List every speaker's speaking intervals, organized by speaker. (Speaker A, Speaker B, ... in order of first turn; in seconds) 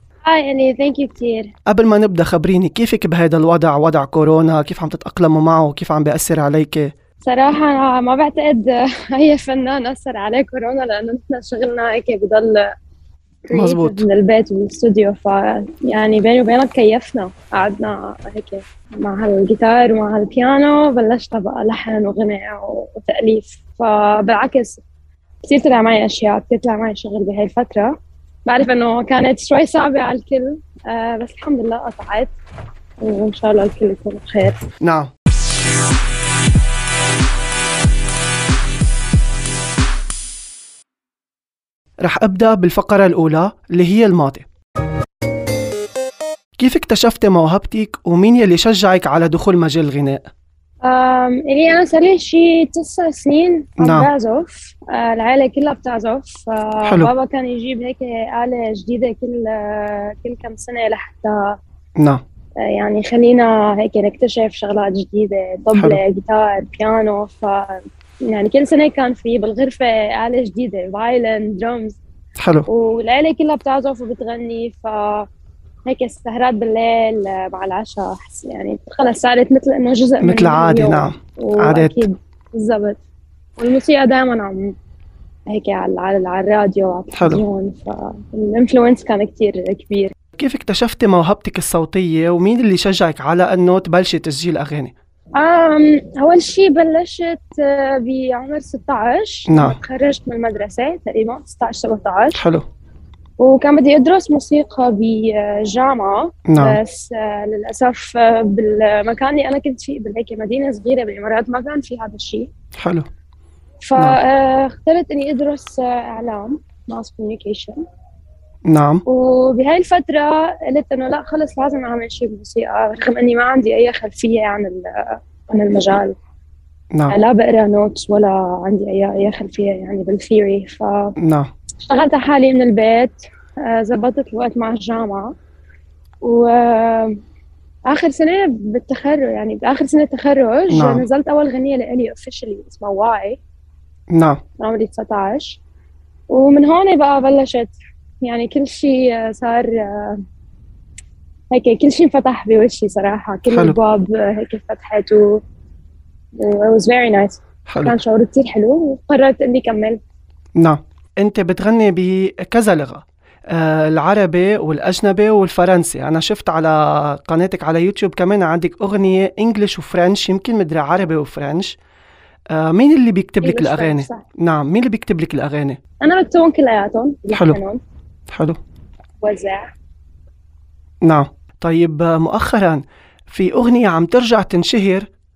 Speaker A: 0.2-1.5, 7.2-12.7, 13.4-24.8, 25.4-32.3, 33.0-34.7, 50.8-61.6, 62.6-72.0, 72.7-75.3, 75.8-83.0, 83.6-84.7, 85.5-90.1, 95.3-102.4, 103.4-112.5, 113.8-117.8, 119.0-126.2, 127.1-131.2, 131.8-135.3, 136.2-137.2, 137.8-143.4, 144.6-145.6, 146.3-150.2, 151.5-155.4, 156.4-160.0, 173.4-174.2, 176.0-177.8, 179.2-179.7
Speaker B: 1.6-6.9, 13.5-14.0, 34.8-35.1, 42.0-44.5, 46.6-50.2, 53.8-54.1, 56.8-57.1, 62.0-62.2, 65.7-66.0, 72.4-72.7, 80.2-82.0, 87.1-87.4, 90.3-94.9, 99.5-99.8, 102.3-102.6, 106.5-106.8, 112.8-113.1, 118.6-119.0, 126.9-127.2, 131.2-131.5, 140.7-141.0, 144.1-144.4, 153.5-153.8, 157.7-157.9, 160.6-171.8, 172.5-175.8, 177.3-177.6, 178.3-178.6, 181.0-185.1